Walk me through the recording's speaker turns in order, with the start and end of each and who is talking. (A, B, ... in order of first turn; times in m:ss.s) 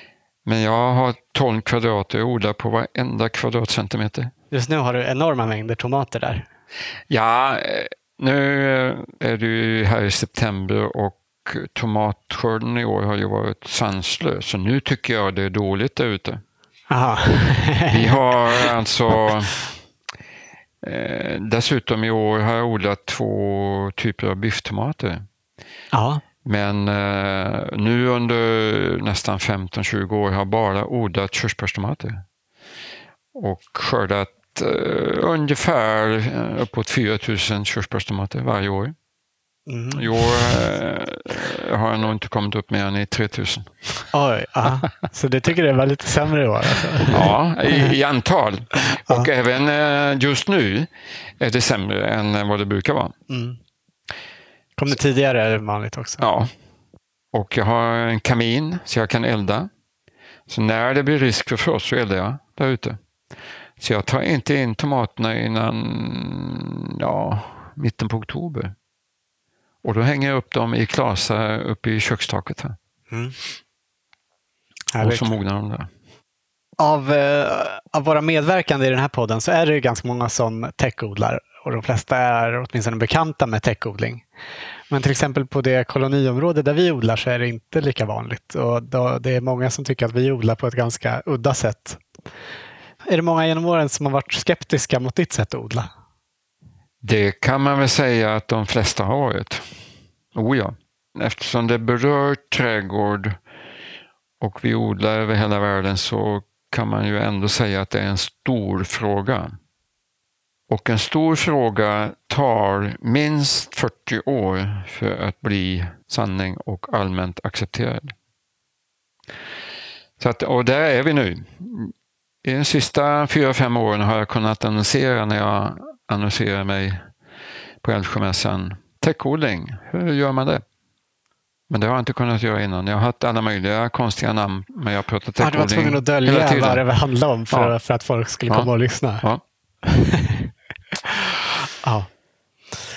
0:00.4-0:04.3 A
0:04.5-0:06.5 B
0:07.1-0:16.4 A
0:16.9-0:18.7 B
0:17.9-0:19.6 A
0:20.8-0:25.2 A
0:25.9-0:26.2 B
0:26.4-0:32.2 A
0:33.3-0:38.9 A
0:39.7-0:40.6 B
0:39.9-0:44.1 A
0:44.1-0:47.9 B
0:47.1-0:53.1 A
0:53.3-0:53.6 B
0:54.8-0:56.2 B
0:56.2-0:56.5 A
0:57.3-0:59.7 A
1:00.5-1:03.0 A
1:03.8-1:08.7 A
1:09.8-1:12.8 A
1:13.1-1:13.4 B
1:14.9-1:15.3 B
1:15.0-1:15.9 A
1:16.8-1:24.2 B
1:24.9-1:32.0 B
1:33.1-1:35.9 B
1:37.0-1:39.8 A
1:40.3-1:43.4 A
1:44.4-1:49.6 A
1:50.7-1:58.1 A
2:00.2-2:07.0 A
2:07.8-2:10.6 A
2:11.7-2:16.8 A
2:15.4-2:19.3 B
2:18.5-2:19.4 A
2:19.8-2:20.5 B
2:21.8-2:22.1 B